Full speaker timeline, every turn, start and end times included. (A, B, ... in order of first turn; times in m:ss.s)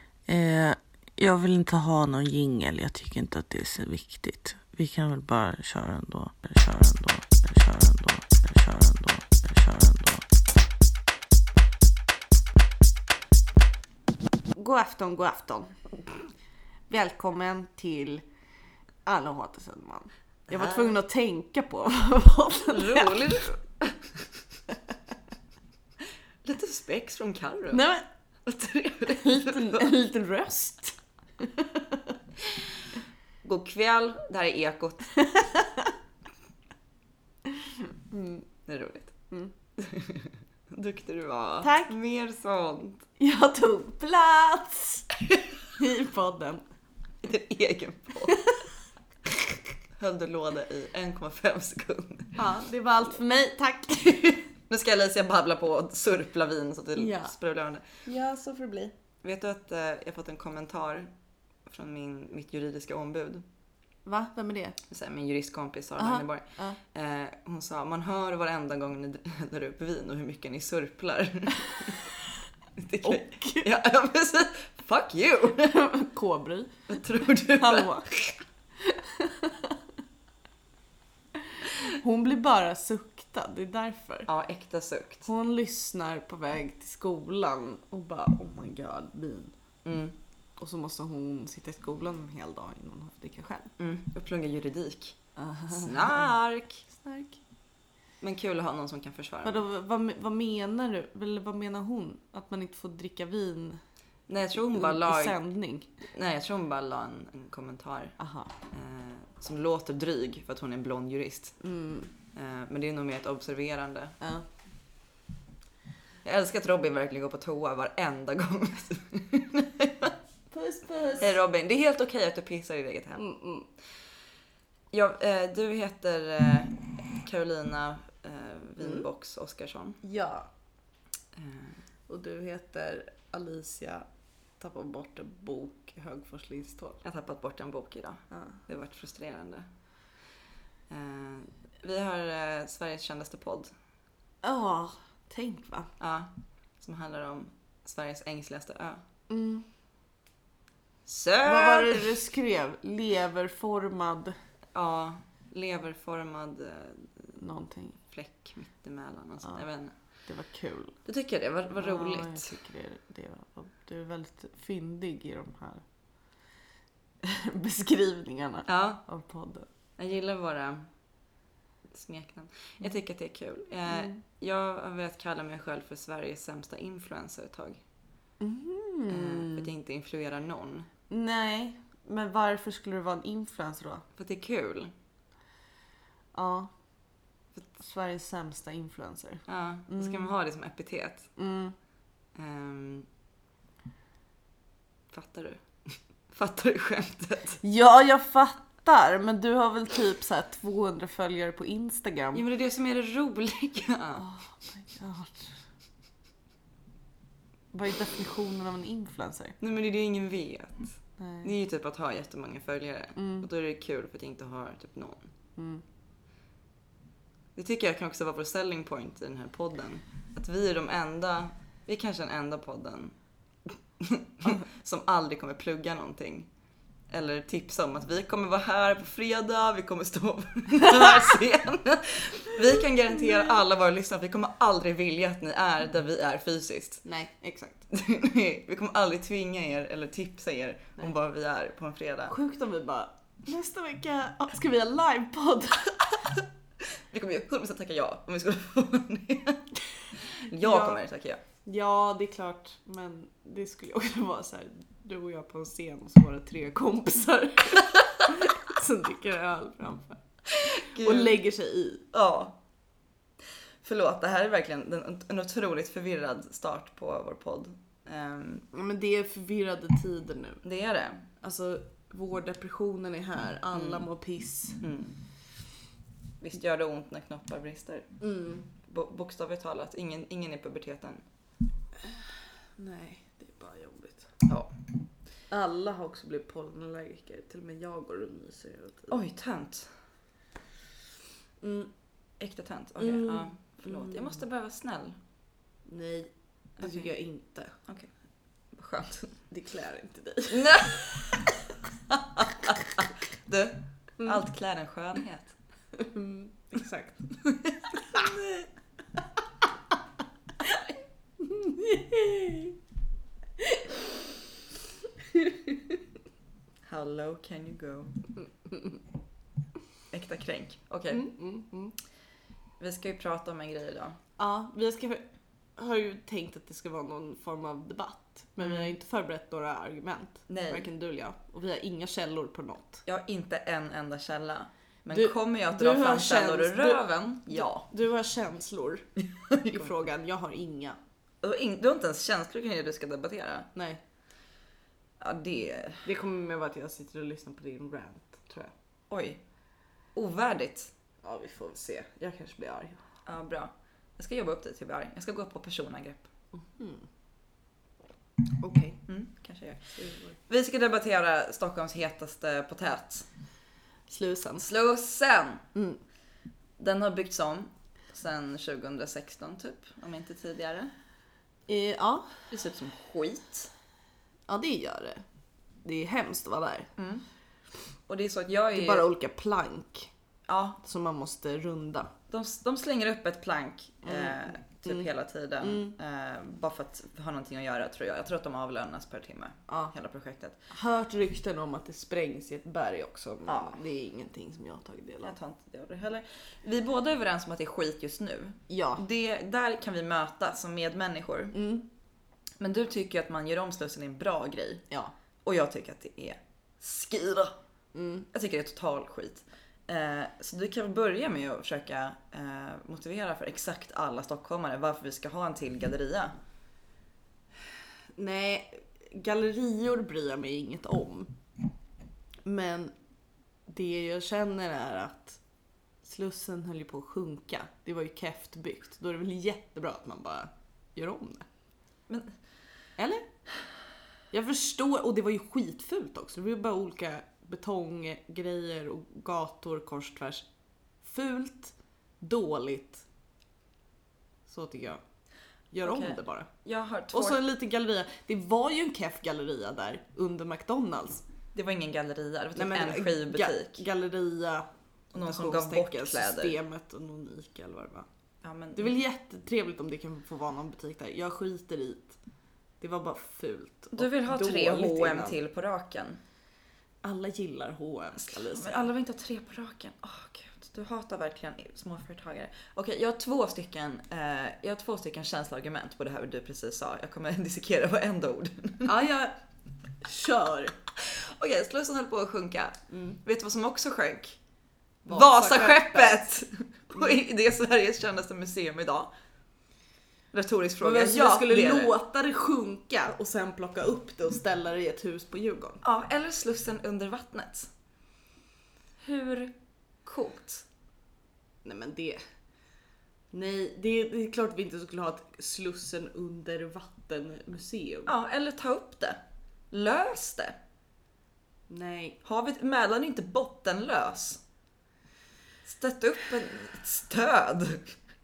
0:00.3-0:10.2 A
0:14.5-0:16.3 B
0:16.9-0:18.2 B
0:19.0-0:23.4 B
0:20.5-0:20.9 C
0:22.7-0:24.2 C
0:26.4-0:27.8 C
0:27.7-0:28.0 B
0:28.4-0:29.9 C
0:29.1-0:32.2 B
0:33.4-0:35.2 C
0:35.1-0:35.9 B
0:38.1-0:38.4 B
0:38.6-0:39.2 C
0:39.8-0:43.0 C
0:41.6-0:41.9 B
0:43.2-0:45.1 B
0:45.7-0:46.6 B
0:47.2-0:48.4 C
0:50.0-0:52.4 C
0:52.4-0:54.4 B
0:54.7-0:57.8 C
0:57.0-0:57.3 B
0:58.0-0:58.9 B
0:59.2-1:01.1 C
1:01.6-1:03.4 C
1:04.0-1:04.8 B
1:04.9-1:12.0 C
1:06.0-1:06.8 B
1:12.8-1:15.8 C
1:13.0-1:13.7 B
1:15.6-1:16.7 B
1:16.9-1:18.3 C
1:17.5-1:18.1 B
1:18.8-1:19.7 B
1:21.6-1:24.3 B
1:24.3-1:25.3 C
1:25.2-1:29.5 B
1:29.8-1:30.2 C
1:30.6-1:33.7 B
1:33.8-1:35.2 C
1:35.4-1:36.2 B
1:35.7-1:36.8 C
1:36.9-1:37.4 B
1:38.2-1:39.6 C
1:39.4-1:43.8 B
1:44.3-1:45.4 C
1:44.6-1:45.9 B
1:46.1-1:48.2 C
1:48.2-1:48.5 B
1:48.7-1:51.6 C
1:51.6-1:52.1 B
1:52.3-1:54.2 C
1:54.2-1:54.4 B
1:56.2-2:00.1 C
2:00.5-2:01.4 B
2:01.2-2:03.2 C
2:03.2-2:03.7 B
2:04.9-2:10.0 C
2:08.8-2:09.1 B
2:10.0-2:10.5 B
2:11.3-2:11.8 C
2:12.1-2:14.0 B
2:14.6-2:17.0 B
2:17.0-2:19.7 C
2:18.3-2:18.6 B
2:20.9-2:23.7 C
2:24.4-2:25.9 B
2:26.0-2:29.0 C
2:29.3-2:29.6 B
2:31.0-2:32.2 C
2:31.4-2:34.3 B
2:34.7-2:37.4 C
2:37.4-2:38.0 B
2:38.1-2:39.9 C
2:40.3-2:41.0 B
2:41.0-2:42.5 C
2:41.8-2:45.8 B
2:47.2-2:49.7 B
2:48.6-2:49.0 C
2:50.0-2:50.9 C
2:51.9-2:57.8 C
2:53.9-2:54.2 B
2:58.4-2:59.7 B
2:59.1-3:00.9 C
3:01.1-3:04.0 B
3:04.2-3:04.9 C
3:06.3-3:06.7 B
3:07.7-3:10.3 B
3:09.5-3:11.3 C
3:11.4-3:11.7 B
3:12.3-3:13.1 C
3:15.1-3:15.6 C
3:16.3-3:17.6 C
3:17.6-3:22.4 B
3:22.3-3:24.2 C
3:24.2-3:25.6 B
3:27.7-3:29.6 B
3:29.6-3:35.3 C
3:31.2-3:31.5 B
3:33.2-3:33.5 B
3:35.6-3:35.8 B
3:37.5-3:43.2 C
3:44.0-3:46.5 C
3:47.1-3:57.0 C
3:57.0-3:57.8 B
3:57.9-4:02.3 C
4:02.3-4:06.3 B
4:07.1-4:11.4 C
4:10.5-4:11.0 B
4:11.6-4:22.1 B
4:20.6-4:21.4 C
4:22.1-4:22.6 C
4:23.8-4:28.6 C
4:28.7-4:30.6 B
4:30.6-4:31.3 C
4:31.4-4:34.8 B
4:33.7-4:34.1 C
4:34.8-4:35.2 C
4:36.4-4:38.1 C
4:38.2-4:38.7 B
4:38.8-4:41.2 C
4:42.8-4:44.3 B
4:44.4-4:44.7 C
4:45.5-4:49.1 B
4:49.1-4:49.9 C
4:51.6-4:51.9 B
4:52.4-4:55.2 C
4:53.0-4:54.4 B
4:55.8-4:57.7 B
4:56.8-4:57.1 C
4:58.7-4:59.3 C
4:59.5-5:01.0 B
5:00.5-5:01.5 C
5:02.1-5:05.5 C
5:04.2-5:04.4 B
5:05.9-5:08.3 B
5:07.9-5:08.7 C
5:11.4-5:12.8 B
5:15.3-5:16.0 B
5:16.8-5:18.2 C
5:18.7-5:18.9 B
5:20.1-5:21.3 C
5:21.1-5:21.9 B
5:22.8-5:24.2 C
5:24.4-5:33.0 B
5:28.6-5:28.9 C
5:30.5-5:30.9 C
5:33.0-5:37.9 C
5:35.1-5:39.1 B
5:39.2-5:39.9 C
5:39.6-5:41.0 B
5:41.4-5:43.7 C
5:43.7-5:44.0 B
5:45.2-5:46.0 C
5:46.0-5:48.7 B
5:49.1-5:49.4 C
5:50.1-5:50.9 C
5:51.2-5:53.0 B
5:53.2-5:56.3 C
5:56.5-5:57.1 B
5:58.6-5:59.0 B
5:59.1-6:03.3 C
6:00.0-6:00.4 B
6:04.1-6:04.7 B
6:04.6-6:05.6 C
6:05.7-6:06.0 B
6:06.8-6:10.9 C
6:11.7-6:12.4 B
6:12.5-6:13.7 C
6:14.5-6:15.2 B
6:15.8-6:16.9 B
6:17.0-6:17.2 C
6:18.1-6:19.1 C
6:18.7-6:20.1 B
6:20.5-6:20.8 C
6:20.8-6:22.1 B
6:22.3-6:30.6 C
6:24.0-6:25.1 B
6:25.6-6:26.0 B
6:29.7-6:29.9 B
6:30.7-6:35.3 B
6:33.4-6:33.8 C
6:35.2-6:41.6 C
6:38.7-6:39.0 B
6:41.5-6:41.8 B
6:42.6-6:44.8 C
6:45.4-6:47.6 C
6:47.9-6:48.3 B
6:48.3-6:56.3 C
6:58.2-7:01.4 B
7:02.4-7:02.9 B
7:03.7-7:05.4 B
7:06.0-7:11.5 B
7:12.1-7:12.3 C
7:13.0-7:13.3 B
7:14.3-7:20.4 B
7:21.0-7:23.0 B
7:24.5-7:25.0 B
7:25.7-7:26.5 B
7:25.8-7:27.4 C
7:27.1-7:31.2 B
7:31.5-7:33.8 C
7:32.6-7:38.1 B
7:35.1-7:36.6 C
7:38.4-7:39.0 C
7:38.7-7:42.2 B
7:42.8-7:45.4 B
7:44.0-7:46.2 C
7:47.0-7:48.9 B
7:48.2-7:59.0 C
7:58.8-7:59.4 B
8:00.0-8:00.8 B
8:01.0-8:04.4 C
8:02.9-8:03.2 B
8:05.0-8:06.3 B
8:05.0-8:09.1 C
8:10.3-8:11.9 C
8:10.8-8:15.8 B
8:15.8-8:17.7 C
8:19.0-8:20.6 C
8:21.6-8:22.2 B
8:23.3-8:28.1 B
8:28.0-8:30.6 C
8:31.7-8:32.2 B
8:32.2-8:34.4 C
8:35.6-8:37.9 C